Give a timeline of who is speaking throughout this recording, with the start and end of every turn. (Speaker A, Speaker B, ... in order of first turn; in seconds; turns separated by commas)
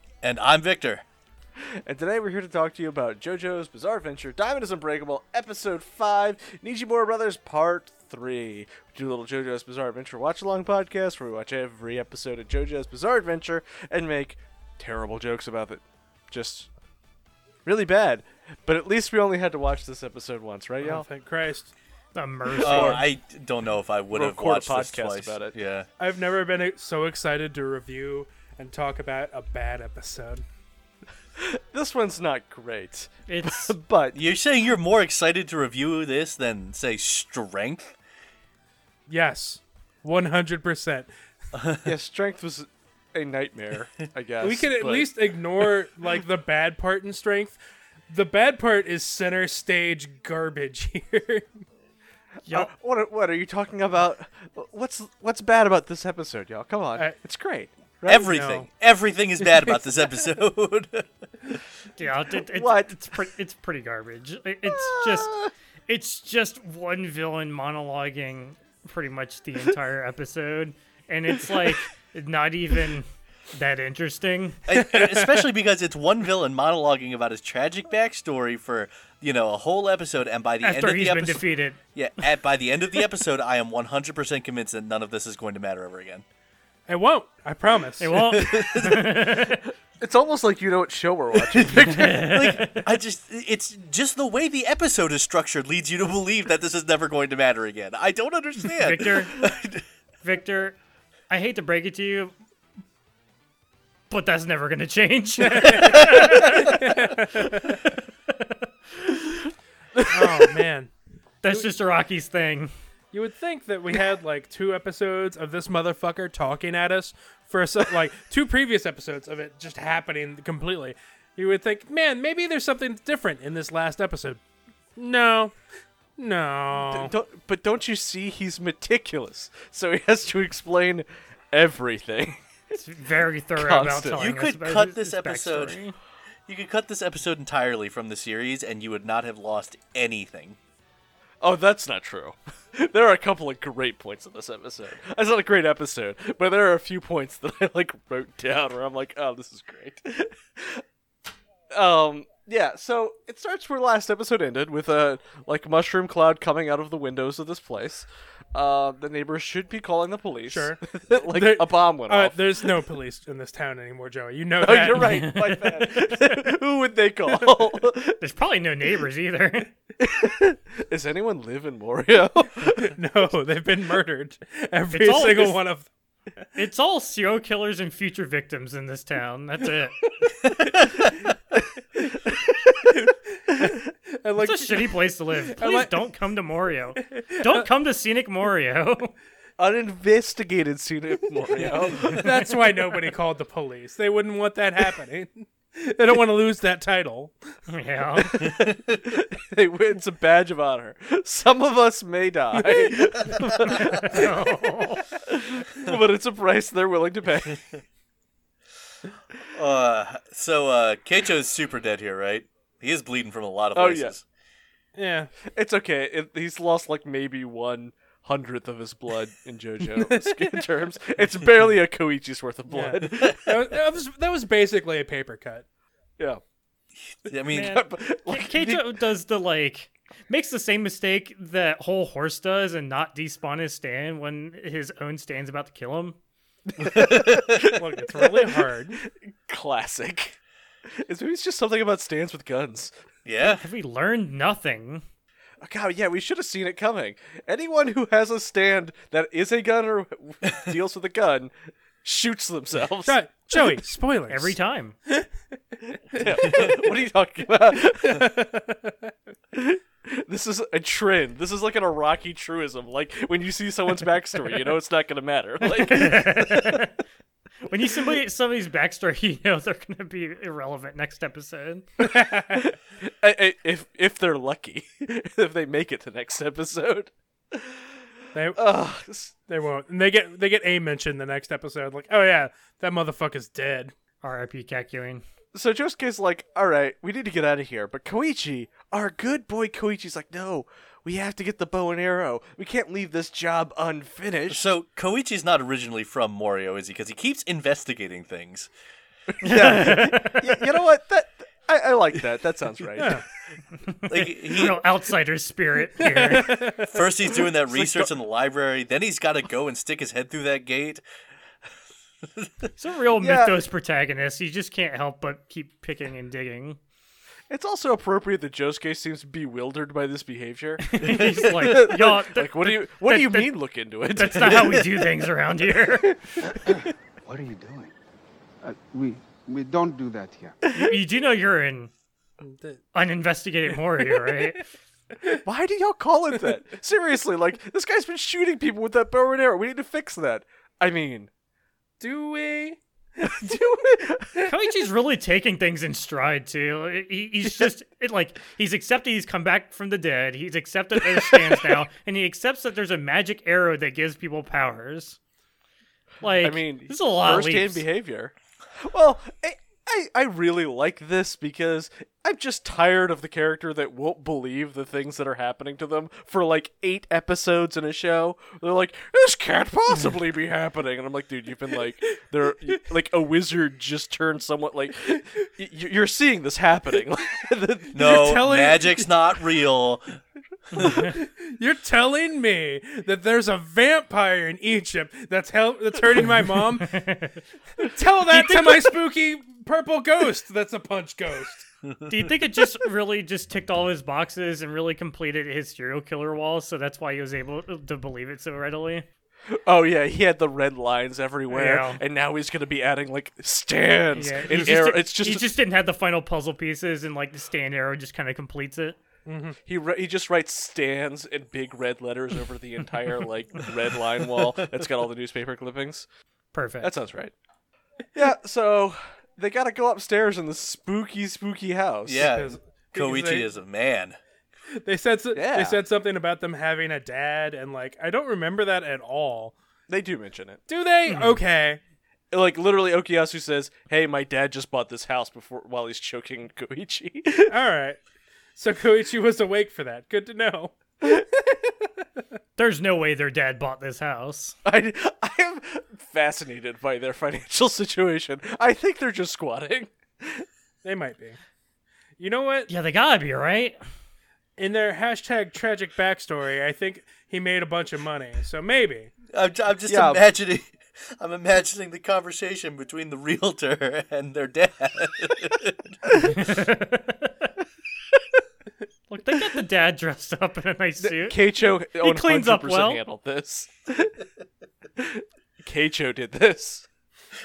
Speaker A: 0.2-1.0, Speaker B: 1.6-16.7, Speaker B: 17.6-21.1, Speaker C: 20.8-21.7, Speaker D: 22.1-23.1, Speaker B: 22.5-23.1, Speaker A: 22.6-25.9, Speaker B: 24.1-25.6, Speaker C: 26.0-30.4, Speaker B: 31.4-34.2, Speaker D: 33.3-33.8, Speaker A: 34.1-37.9, Speaker C: 39.1-41.1, Speaker A: 41.5-41.9, Speaker B: 41.8-45.1, Speaker C: 44.4-47.6, Speaker C: 48.1-51.5, Speaker D: 52.5-52.7, Speaker B: 52.5-58.3, Speaker A: 58.1-61.6, Speaker C: 58.1-58.7, Speaker D: 62.0-65.3, Speaker B: 62.5-63.0, Speaker B: 64.7-65.5, Speaker D: 65.9-74.6, Speaker A: 74.7-86.2, Speaker C: 74.7-75.4, Speaker D: 80.6-81.8, Speaker C: 86.9-88.2, Speaker D: 88.0-89.6, Speaker A: 88.1-89.1, Speaker B: 90.0-92.3, Speaker A: 91.5-99.8, Speaker D: 91.8-92.8, Speaker D: 98.8-99.3, Speaker D: 100.2-100.8, Speaker D: 101.3-102.3, Speaker D: 104.1-106.8, Speaker C: 105.4-107.8, Speaker A: 105.8-106.3, Speaker D: 108.3-108.7, Speaker B: 110.0-110.6, Speaker C: 110.1-110.9, Speaker D: 111.4-112.7, Speaker C: 113.1-124.4, Speaker C: 125.0-125.6, Speaker C: 126.2-127.1, Speaker B: 126.7-132.4, Speaker D: 132.7-135.9, Speaker B: 133.6-134.2, Speaker A: 134.1-135.8, Speaker A: 136.5-140.6, Speaker B: 141.4-150.8, Speaker B: 151.7-162.8, Speaker C: 160.5-165.3, Speaker B: 164.6-168.2, Speaker D: 165.0-166.4, Speaker D: 168.2-169.7, Speaker B: 170.0-173.0, Speaker C: 172.8-175.9, Speaker D: 174.9-175.6, Speaker D: 176.6-180.0, Speaker C: 182.9-186.0, Speaker D: 184.4-189.1, Speaker C: 187.2-187.7, Speaker B: 189.6-192.4, Speaker C: 191.6-197.3, Speaker D: 197.7-198.4, Speaker B: 198.2-204.3, Speaker D: 203.6-205.1, Speaker B: 205.2-207.6, Speaker A: 209.5-214.2, Speaker B: 213.8-214.1, Speaker C: 215.0-215.3, Speaker B: 215.4-223.6, Speaker C: 219.8-220.7, Speaker C: 222.7-225.7, Speaker A: 227.3-227.8, Speaker B: 227.5-229.0, Speaker D: 227.5-236.2, Speaker B: 236.7-242.9, Speaker A: 236.9-237.7, Speaker C: 237.8-239.0, Speaker A: 243.2-243.6, Speaker D: 243.4-245.0, Speaker B: 245.6-251.5, Speaker B: 252.0-253.2, Speaker C: 253.1-254.6, Speaker D: 254.3-254.9, Speaker C: 255.8-256.8, Speaker B: 256.1-258.3, Speaker C: 257.8-259.1, Speaker B: 259.5-266.8, Speaker D: 265.7-266.9, Speaker D: 267.7-271.9, Speaker C: 272.1-272.6, Speaker B: 272.1-277.9, Speaker C: 278.3-278.6, Speaker B: 278.5-279.4, Speaker C: 279.5-283.9, Speaker D: 284.2-285.2, Speaker B: 285.5-294.7, Speaker A: 294.5-298.7, Speaker B: 299.3-303.2, Speaker D: 299.4-300.6, Speaker D: 303.9-306.6, Speaker A: 304.1-304.8, Speaker C: 306.0-307.0, Speaker A: 306.9-311.0, Speaker B: 307.6-308.1, Speaker D: 312.8-316.8, Speaker B: 313.2-313.6, Speaker B: 317.5-324.9, Speaker D: 320.8-323.6, Speaker A: 321.0-321.4, Speaker D: 324.1-326.2, Speaker E: 326.6-327.9, Speaker E: 328.6-330.6, Speaker D: 330.7-331.9, Speaker C: 332.4-332.8, Speaker D: 332.9-334.6, Speaker B: 335.4-341.3, Speaker C: 342.0-343.5, Speaker B: 343.2-344.5, Speaker D: 344.5-355.2, Speaker B: 351.0-351.8, Speaker D: 356.2-357.9, Speaker B: 356.4-378.2, Speaker A: 377.9-380.2, Speaker C: 378.0-379.1, Speaker D: 380.7-381.1, Speaker C: 380.8-387.0, Speaker D: 386.9-387.4, Speaker C: 387.8-391.7, Speaker D: 388.3-389.0, Speaker A: 391.8-392.3, Speaker D: 392.1-399.1, Speaker B: 399.5-405.5, Speaker D: 401.5-402.0, Speaker D: 404.1-409.0, Speaker C: 409.3-409.6, Speaker B: 409.7-416.1, Speaker D: 416.5-416.9, Speaker B: 416.8-417.3, Speaker B: 418.1-422.3, Speaker A: 422.1-424.2, Speaker C: 422.2-423.5, Speaker C: 424.8-429.6, Speaker B: 425.3-425.8, Speaker B: 429.9-430.6, Speaker C: 430.7-431.8, Speaker D: 431.1-431.4, Speaker B: 432.3-437.6, Speaker C: 437.5-438.0, Speaker C: 438.6-441.6, Speaker D: 442.6-444.6, Speaker B: 444.6-450.5, Speaker C: 450.8-451.4, Speaker C: 452.2-452.7, Speaker D: 452.7-453.8, Speaker C: 454.6-459.1, Speaker A: 459.3-466.0, Speaker B: 459.9-460.2, Speaker D: 466.3-467.5, Speaker D: 469.1-471.4, Speaker B: 471.0-474.1, Speaker D: 471.9-473.0, Speaker B: 475.0-476.9